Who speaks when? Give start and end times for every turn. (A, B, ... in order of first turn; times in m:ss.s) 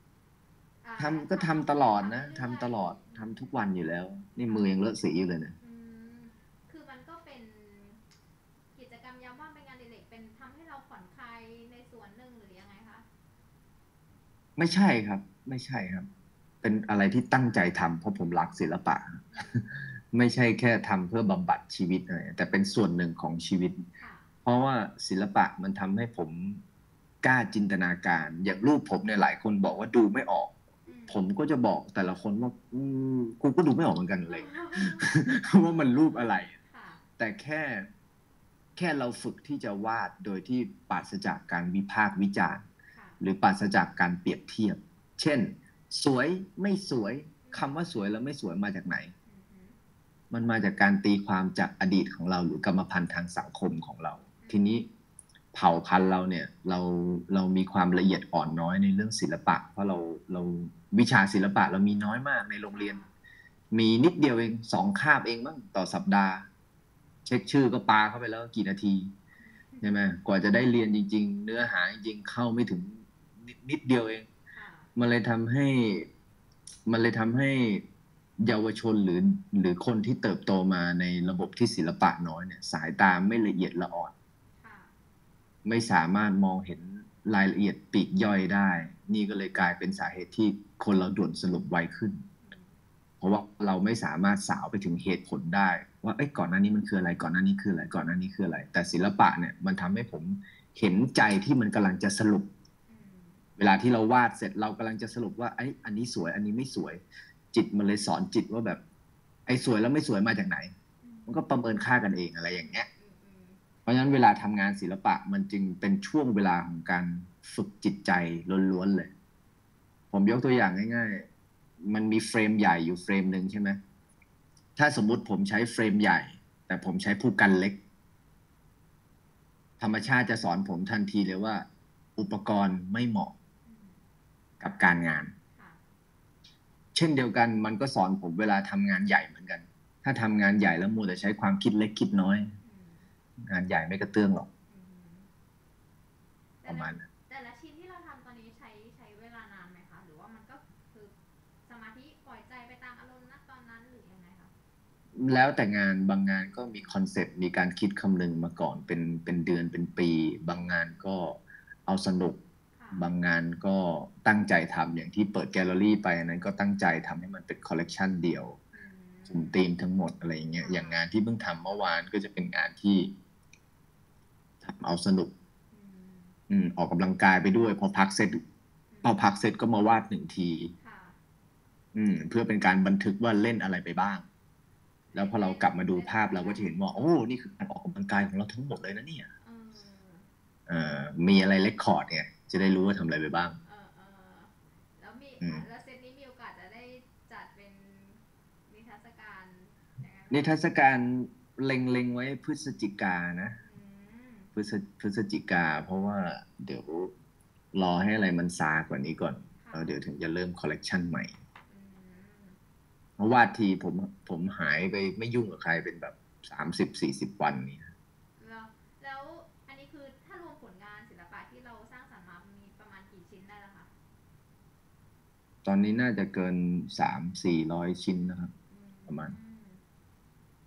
0:00.8-0:03.5 A
0:01.0-0:05.5 B
0:04.5-0:04.7 A
0:05.6-0:08.0 A
0:08.7-0:13.0 A
0:14.6-0:16.1 B
0:16.6-0:23.8 B
0:19.3-0:19.7 A
0:24.0-0:24.3 A
0:24.4-0:26.6 B
0:27.2-0:30.5 B
0:30.8-0:31.2 A
0:31.1-0:36.6 B
0:34.3-0:37.0 A
0:37.2-0:37.9 B
0:38.8-0:42.6 B
0:42.9-0:43.2 A
0:43.2-0:49.1 B
0:47.4-0:47.7 A
0:49.3-0:49.8 A
0:50.3-0:54.8 B
0:54.4-0:54.8 A
0:55.5-1:03.0 B
1:02.7-1:03.1 A
1:03.7-1:06.5 B
1:07.2-1:09.1 B
1:09.4-1:10.0 A
1:09.8-1:14.3 B
1:14.5-1:14.9 A
1:15.0-1:16.1 B
1:16.9-1:17.8 B
1:18.4-1:24.1 B
1:24.6-1:24.9 A
1:25.6-1:32.2 B
1:32.4-1:32.8 A
1:33.2-1:42.5 B
1:42.9-1:43.5 A
1:43.6-1:47.0 B
1:47.5-1:48.8 B
1:49.5-1:50.7 B
1:51.0-1:51.4 A
1:51.3-1:52.9 B
1:53.0-1:54.2 A
1:53.9-1:59.1 B
2:00.1-2:01.3 B
2:01.8-2:03.8 B
2:04.8-2:07.8 B
2:09.8-2:13.3 B
2:13.6-2:14.0 A
2:14.6-2:15.3 B
2:15.5-2:15.8 A
2:16.9-2:22.5 B
2:22.6-2:23.1 A
2:23.5-2:24.5 B
2:24.7-2:25.3 A
2:26.6-2:31.1 A
2:26.7-2:27.0 B
2:31.6-2:34.5 A
2:35.2-2:42.4 B
2:36.3-2:37.0 A
2:42.8-2:43.1 A
2:43.0-2:48.6 B
2:48.7-2:49.6 A
2:49.3-2:53.1 B
2:50.6-2:51.0 A
2:54.6-2:55.3 B
2:55.7-2:56.4 A
2:56.5-2:58.4 B
2:58.9-2:59.2 A
2:59.0-3:00.7 B
3:00.8-3:01.2 A
3:01.9-3:04.2 B
3:05.1-3:06.7 A
3:05.1-3:09.3 B
3:09.4-3:10.3 A
3:10.7-3:13.6 B
3:13.6-3:20.6 A
3:20.3-3:23.6 B
3:23.6-3:24.5 A
3:24.6-3:27.1 B
3:27.7-3:31.3 B
3:29.6-3:30.0 A
3:31.7-3:32.6 A
3:33.2-3:37.9 B
3:38.4-3:43.9 A
3:45.6-3:48.5 B
3:48.7-3:49.8 A
3:49.1-3:49.3 B